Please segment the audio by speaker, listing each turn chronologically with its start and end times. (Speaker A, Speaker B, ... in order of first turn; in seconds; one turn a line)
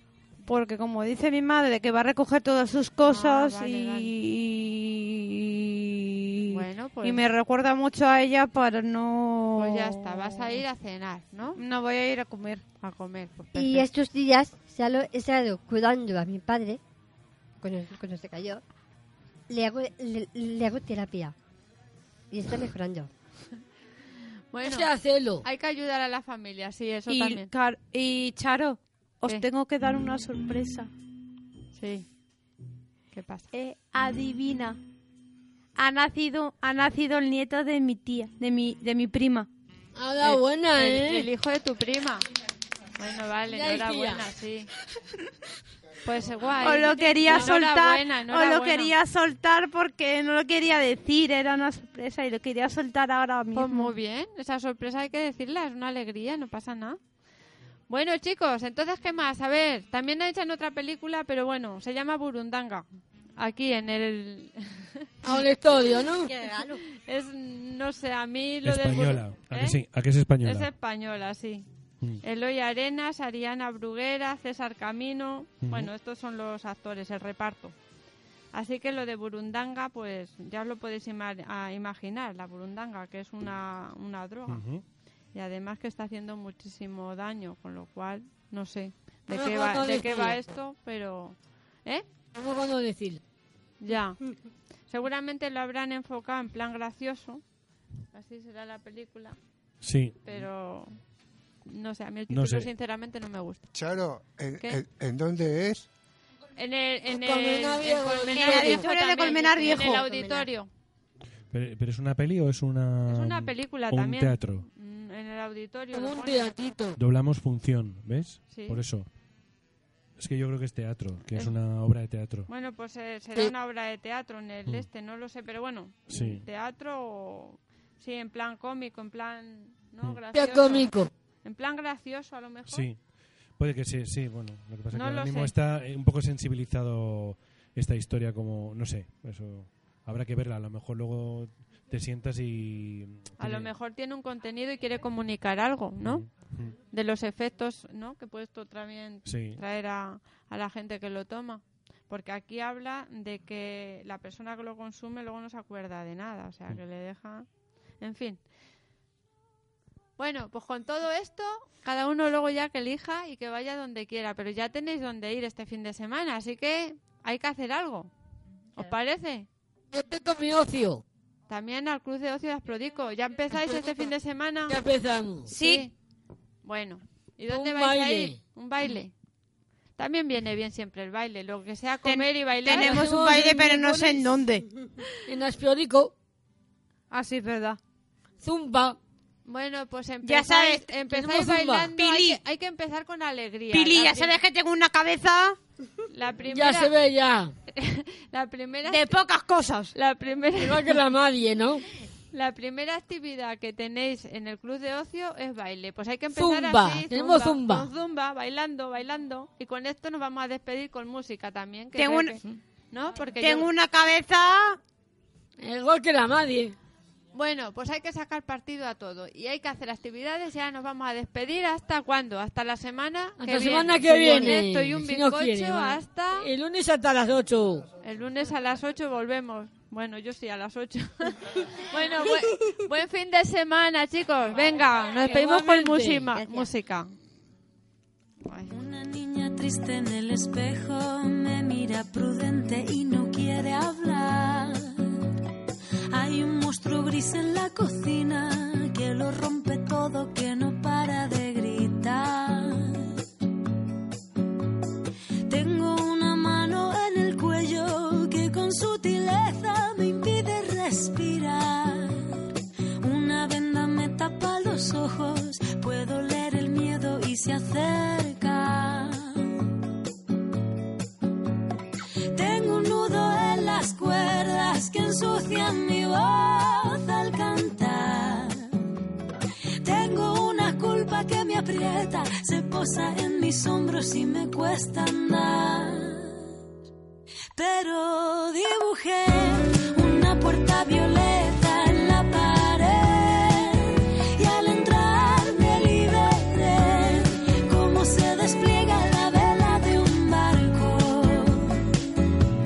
Speaker A: 0.4-10.5
Speaker B: 3.0-4.1
Speaker B: 6.5-7.3
Speaker B: 9.6-11.6
Speaker A: 11.6-12.6
Speaker B: 12.8-13.9
Speaker C: 13.5-16.8
Speaker C: 17.6-18.6
Speaker C: 19.5-21.3
Speaker C: 22.3-23.1
Speaker B: 24.5-24.9
Speaker D: 24.6-25.4
Speaker B: 25.4-27.5
Speaker A: 27.1-30.9
Speaker B: 31.8-32.0
Speaker B: 33.1-33.5
Speaker A: 33.5-34.8
Speaker A: 35.8-39.5
Speaker D: 39.9-41.3
Speaker B: 40.2-42.2
Speaker B: 43.0-44.7
Speaker D: 43.5-44.2
Speaker B: 46.0-48.9
Speaker A: 46.6-53.9
Speaker B: 53.5-57.0
Speaker B: 57.9-62.8
Speaker B: 63.4-65.1
Speaker D: 65.2-66.3
Speaker C: 66.2-66.8
Speaker B: 66.8-69.8
Speaker E: 68.6-70.7
Speaker B: 70.4-71.7
Speaker B: 72.2-77.7
Speaker E: 75.6-75.9
Speaker B: 78.5-84.7
Speaker E: 84.5-84.8
Speaker B: 85.3-92.0
Speaker D: 89.3-90.4
Speaker D: 92.3-93.2
Speaker B: 93.8-94.2
Speaker B: 94.9-97.4
Speaker B: 98.1-99.4
Speaker E: 99.8-100.4
Speaker B: 100.2-100.9
Speaker B: 101.6-103.6
Speaker E: 102.3-102.7
Speaker F: 103.7-105.9
Speaker B: 106.5-110.7
Speaker D: 107.2-108.9
Speaker A: 108.3-110.0
Speaker C: 109.9-110.4
Speaker E: 111.5-114.7
Speaker B: 113.1-116.5
Speaker D: 115.9-117.0
Speaker E: 117.0-119.0
Speaker B: 118.5-118.8
Speaker E: 120.2-122.5
Speaker B: 121.3-121.5
Speaker B: 122.5-130.9
Speaker E: 126.1-126.4
Speaker D: 130.3-131.1
Speaker B: 131.4-132.9
Speaker E: 132.7-133.0
Speaker E: 133.6-143.7
Speaker B: 134.9-135.5
Speaker B: 143.4-146.2
Speaker E: 146.0-146.8
Speaker B: 146.9-157.5
Speaker E: 149.2-149.6
Speaker B: 158.0-158.4
Speaker B: 160.2-168.1
Speaker B: 168.7-169.5
Speaker D: 169.9-171.0
Speaker B: 171.5-174.8
Speaker D: 174.7-175.5
Speaker A: 175.5-175.9
Speaker B: 175.5-175.9
Speaker B: 176.6-179.1
Speaker D: 177.5-178.4
Speaker B: 180.0-183.1
Speaker A: 182.1-184.6
Speaker D: 182.7-184.2
Speaker D: 185.2-186.1
Speaker A: 187.1-187.8
Speaker D: 188.4-189.0
Speaker B: 189.4-194.3
Speaker A: 190.2-190.9
Speaker D: 191.1-191.9
Speaker A: 192.0-192.4
Speaker A: 193.7-195.6
Speaker B: 196.1-196.9
Speaker D: 196.5-197.5
Speaker B: 197.7-199.1
Speaker A: 198.8-199.9
Speaker B: 199.9-201.0
Speaker D: 200.6-201.8
Speaker B: 202.3-213.7
Speaker D: 206.3-207.9
Speaker A: 211.9-212.4
Speaker A: 213.4-214.8
Speaker D: 215.6-216.8
Speaker B: 217.3-226.5
Speaker D: 223.4-227.9
Speaker C: 224.2-224.6
Speaker B: 228.0-237.1
Speaker D: 235.1-236.3
Speaker C: 236.3-236.7
Speaker B: 238.4-238.7
Speaker G: 238.7-245.2
Speaker G: 246.1-253.1
Speaker G: 255.5-262.4
Speaker G: 263.0-269.5
Speaker G: 272.3-278.7
Speaker G: 279.8-286.5
Speaker G: 287.5-301.9